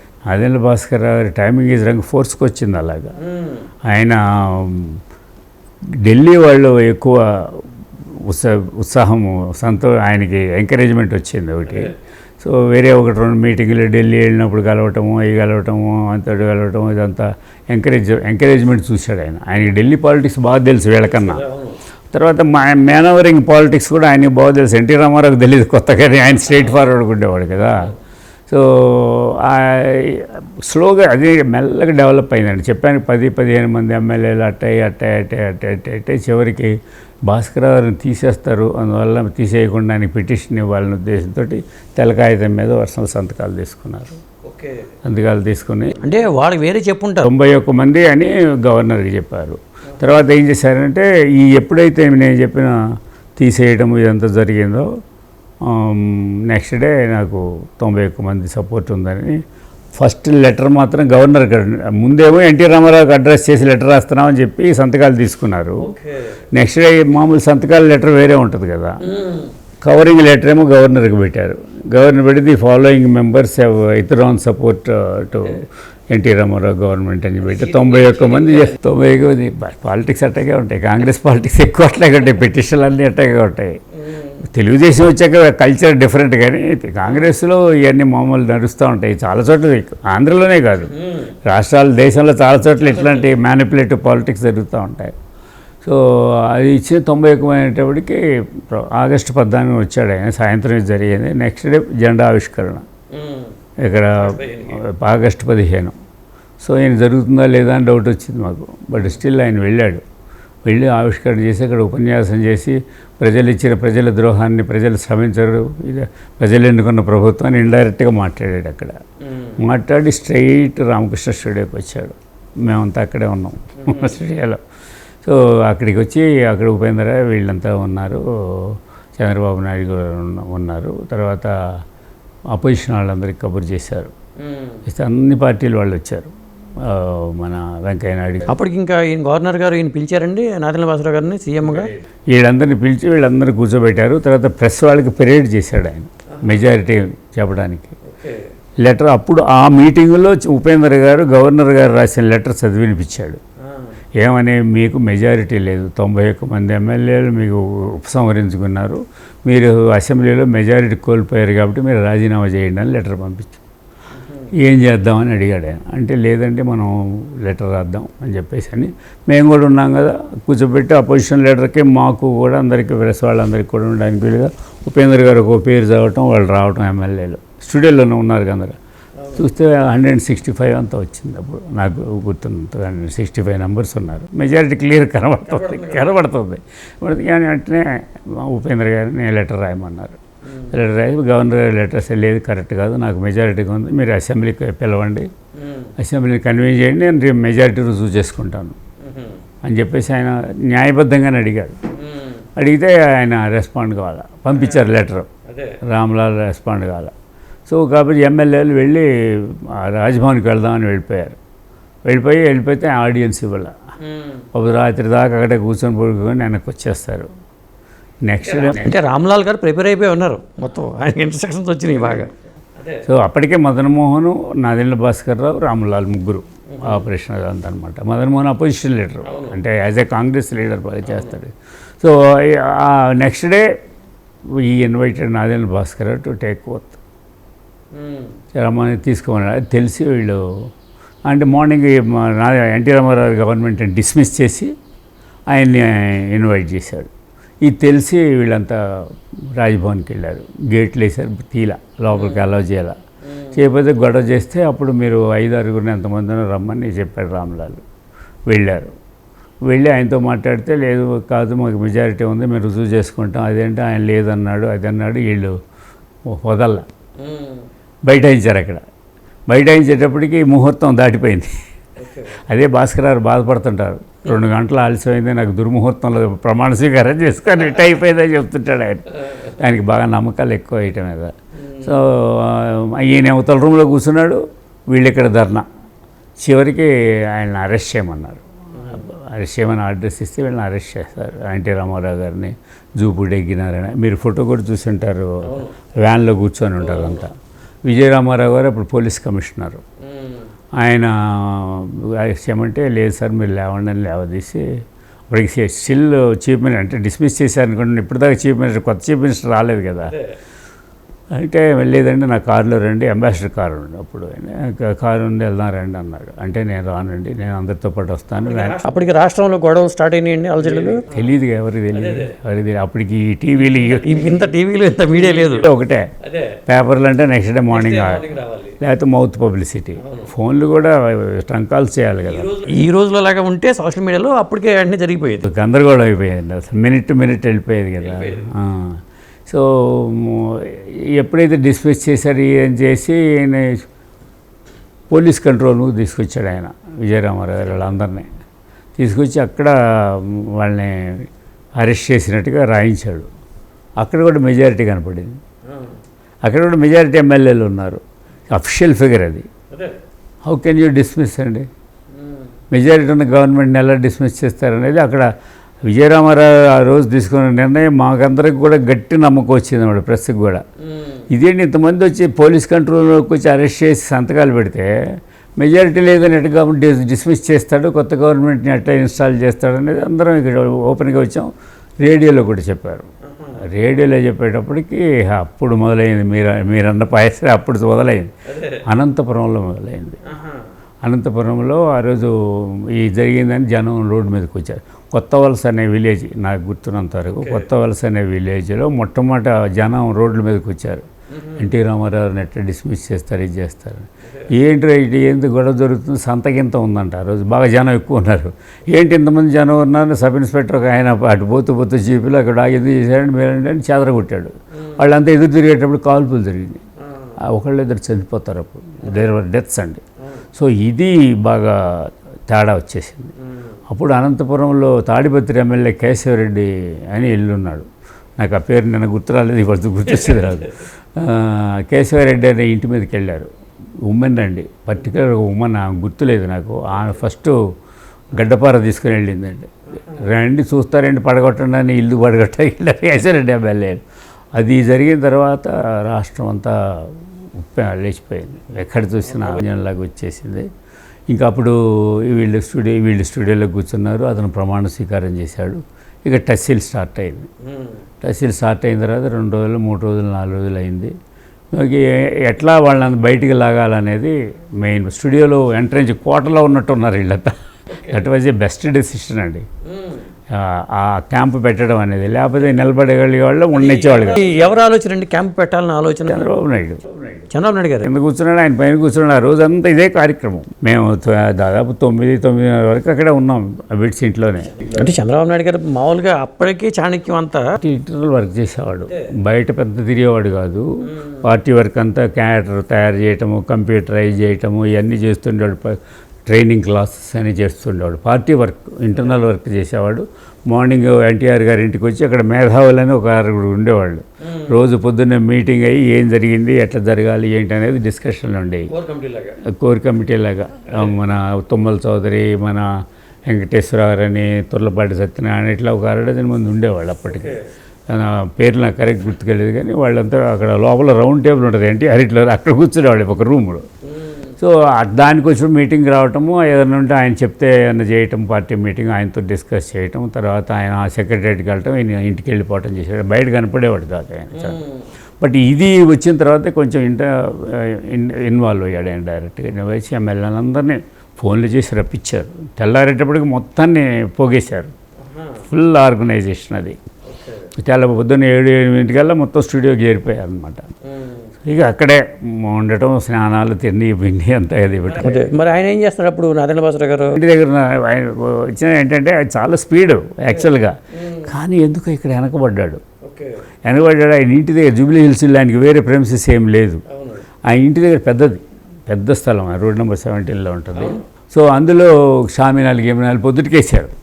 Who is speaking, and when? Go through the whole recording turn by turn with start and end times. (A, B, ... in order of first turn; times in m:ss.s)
0:00.3-0:03.1 A
0:03.2-0:03.7 B
0:03.9-0:05.0 A
0:06.0-0:21.4 A
0:11.7-0:11.9 B
0:21.0-0:21.8 B
0:22.1-0:27.9 A
0:28.5-0:36.7 A
0:37.2-0:44.2 A
0:44.4-0:44.9 B
0:45.0-0:46.0 A
0:46.0-0:47.3 B
0:47.2-0:52.8 A
0:53.4-0:54.9 A
0:55.6-0:59.4 A
0:59.9-1:05.9 A
1:05.8-1:06.4 B
1:06.5-1:09.0 A
1:09.0-1:09.5 B
1:09.8-1:23.8 A
1:17.4-1:18.8 B
1:24.0-1:24.4 B
1:24.4-1:35.1 A
1:27.0-1:27.3 B
1:30.9-1:31.3 B
1:32.8-1:33.3 B
1:35.8-1:42.8 A
1:43.1-1:43.5 B
1:43.8-1:45.9 A
1:44.2-1:44.8 B
1:46.6-1:50.0 A
1:50.6-1:59.0 A
1:59.3-1:59.6 B
1:59.6-2:04.6 A
2:03.8-2:04.1 B
2:05.2-2:11.5 A
2:12.5-2:14.1 A
2:14.4-2:14.8 B
2:14.8-2:18.5 A
2:18.5-2:21.9 B
2:21.6-2:27.9 A
2:26.3-2:26.6 B
2:28.0-2:28.5 B
2:28.8-2:33.4 A
2:33.6-2:34.0 B
2:34.2-2:43.6 A
2:44.2-2:44.5 B
2:44.6-2:58.8 A
2:59.2-2:59.4 B
2:59.4-3:15.3 A
3:05.4-3:06.2 B
3:10.5-3:10.7 B
3:15.5-3:15.9 B
3:16.0-3:18.8 A
3:19.0-3:19.4 B
3:19.6-3:21.7 A
3:21.9-3:22.4 B
3:22.6-3:25.3 A
3:24.5-3:24.8 B
3:25.4-3:25.8 B
3:25.9-3:27.1 A
3:27.7-3:31.4 A
3:32.0-3:33.7 A
3:34.0-3:34.4 B
3:34.5-3:37.3 A
3:38.3-3:39.0 A
3:38.4-3:43.0 B
3:43.0-3:53.6 A
3:46.7-3:47.0 B
3:49.2-3:49.6 B
3:51.1-3:51.4 B
3:54.6-3:57.0 A
3:57.9-3:58.3 B
3:58.5-4:00.7 A
4:01.3-4:04.7 A
4:05.5-4:07.1 A
4:07.6-4:13.0 A
4:12.1-4:12.5 B
4:13.2-4:13.6 B
4:13.5-4:17.8 A
4:18.5-4:18.9 A
4:19.7-4:25.5 A
4:26.3-4:26.8 A
4:27.2-4:27.7 B
4:28.0-4:28.8 A
4:29.5-4:31.5 A
4:32.0-4:32.4 B
4:32.4-4:45.6 A
4:41.5-4:42.0 B
4:46.4-4:57.3 A
4:48.8-4:49.0 B
4:55.4-4:55.7 B
4:56.8-4:57.3 B
4:57.8-4:59.8 A
5:00.0-5:00.5 B
5:00.8-5:04.6 A
5:05.3-5:10.1 A
5:11.3-5:18.8 A
5:18.4-5:21.0 B
5:20.8-5:24.5 A
5:21.9-5:22.3 B
5:23.7-5:26.6 B
5:25.1-5:26.1 A
5:26.7-5:32.7 A
5:27.7-5:28.8 B
5:30.0-5:30.3 B
5:32.3-5:35.5 B
5:35.4-5:43.8 A
5:38.0-5:38.5 B
5:45.1-5:48.3 A
5:49.0-5:51.3 A
5:51.8-5:53.3 A
5:54.0-5:55.4 A
5:55.7-5:56.0 B
5:56.4-5:59.4 A
5:59.7-6:00.0 B
6:00.4-6:01.7 A
6:02.1-6:02.5 B
6:02.7-6:05.3 A
6:05.8-6:10.6 A
6:10.8-6:11.2 B
6:11.3-6:14.9 A
6:15.6-6:23.0 A
6:23.2-6:23.6 B
6:23.6-6:28.3 A
6:28.5-6:28.8 B
6:28.8-6:30.2 A
6:30.2-6:30.6 B
6:31.0-6:56.8 A
6:37.3-6:37.7 B
6:41.3-6:41.7 B
6:44.2-6:44.5 B
6:54.7-6:55.0 B
6:57.0-6:57.3 B
6:57.5-7:00.0 A
7:00.2-7:00.4 B
7:00.6-7:03.3 A
7:03.4-7:03.8 B
7:03.9-7:07.9 A
7:08.4-7:13.5 A
7:10.1-7:10.7 B
7:14.0-7:17.6 A
7:18.3-7:24.0 A
7:24.5-7:30.6 A
7:29.2-7:29.6 B
7:31.3-7:37.5 A
7:37.6-7:38.0 B
7:38.2-7:41.1 A
7:41.7-7:49.6 A
7:47.9-7:48.3 B
7:49.8-7:50.3 B
7:50.5-7:54.6 A
7:53.7-7:56.5 B
7:56.3-7:57.0 A
7:57.5-7:58.1 B
7:58.0-8:04.9 A
8:04.8-8:07.7 B
8:07.8-8:10.8 A
8:11.1-8:11.4 B
8:11.4-8:28.9 A
8:24.4-8:24.8 B
8:28.9-8:29.6 B
8:29.6-8:32.9 A
8:33.5-8:37.6 A
8:37.3-8:37.7 B
8:38.1-8:43.8 A
8:44.0-8:44.6 B
8:44.6-8:54.8 A
8:54.5-8:55.1 B
8:55.4-9:04.9 A
9:05.2-9:05.6 B
9:05.7-9:07.0 A
9:07.3-9:07.7 B
9:07.8-9:10.8 A
9:11.0-9:11.5 B
9:11.6-9:15.5 A
9:15.1-9:17.4 B
9:17.3-9:23.0 A
9:20.5-9:21.5 B
9:23.2-9:23.6 B
9:23.8-9:27.0 A
9:27.1-9:27.4 B
9:27.7-9:34.1 A
9:30.9-9:31.2 B